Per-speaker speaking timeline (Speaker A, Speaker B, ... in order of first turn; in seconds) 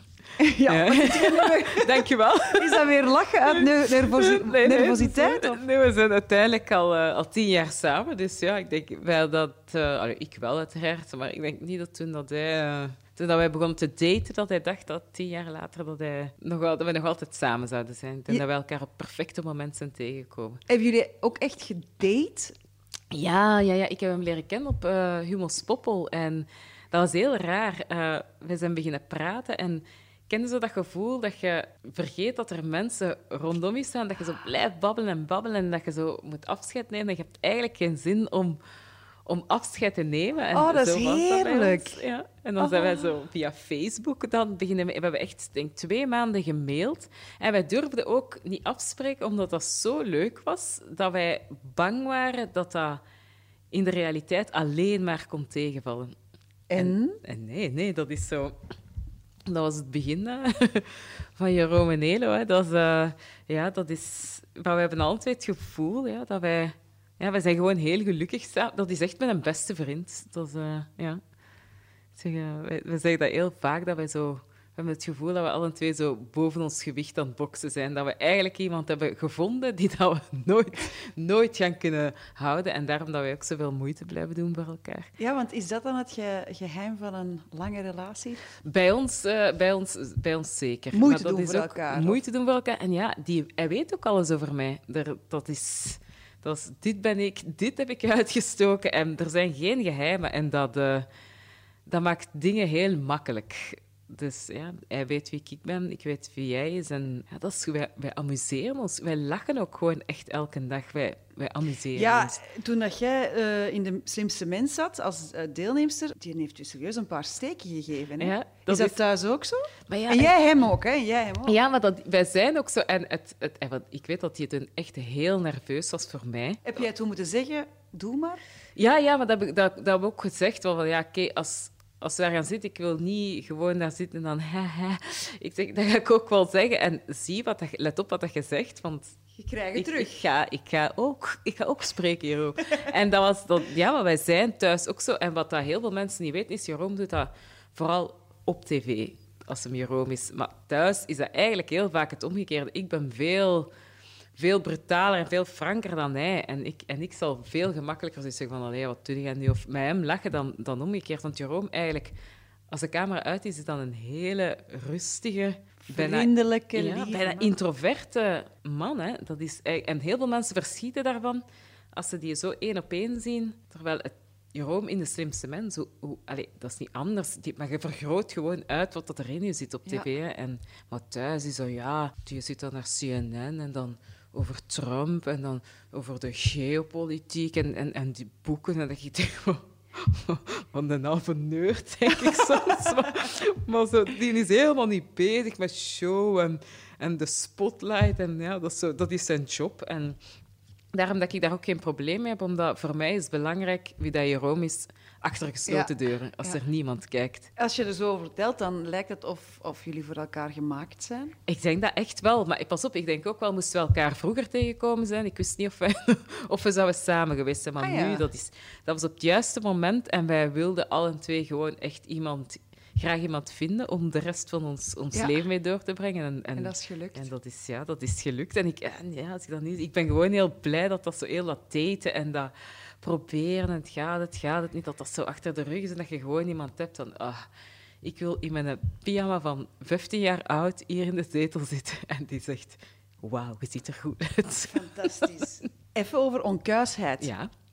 Speaker A: 0.4-5.6, 20.7-22.6, 40.5-42.0, 42.6-43.1, 56.7-57.2, 85.2-88.4, 90.9-92.2, 111.9-121.6, 126.6-128.4, 139.4-140.2, 165.9-167.5, 192.2-192.6, 205.7-205.9, 207.6-211.3, 217.8-218.3, 226.6-227.3, 244.7-247.3
Speaker B: 0.7-2.9, 3.5-20.6, 23.1-38.6, 39.3-53.0, 53.7-56.1, 56.8-58.6, 59.5-71.2, 72.2-85.1, 88.6-101.1, 101.9-112.4, 118.2-119.0, 119.9-120.4, 121.5-126.6, 128.8-139.2, 139.7-153.7, 154.4-162.1, 162.7-200.2, 200.9-207.5, 211.5-237.4, 238.0-245.7, 247.2-247.5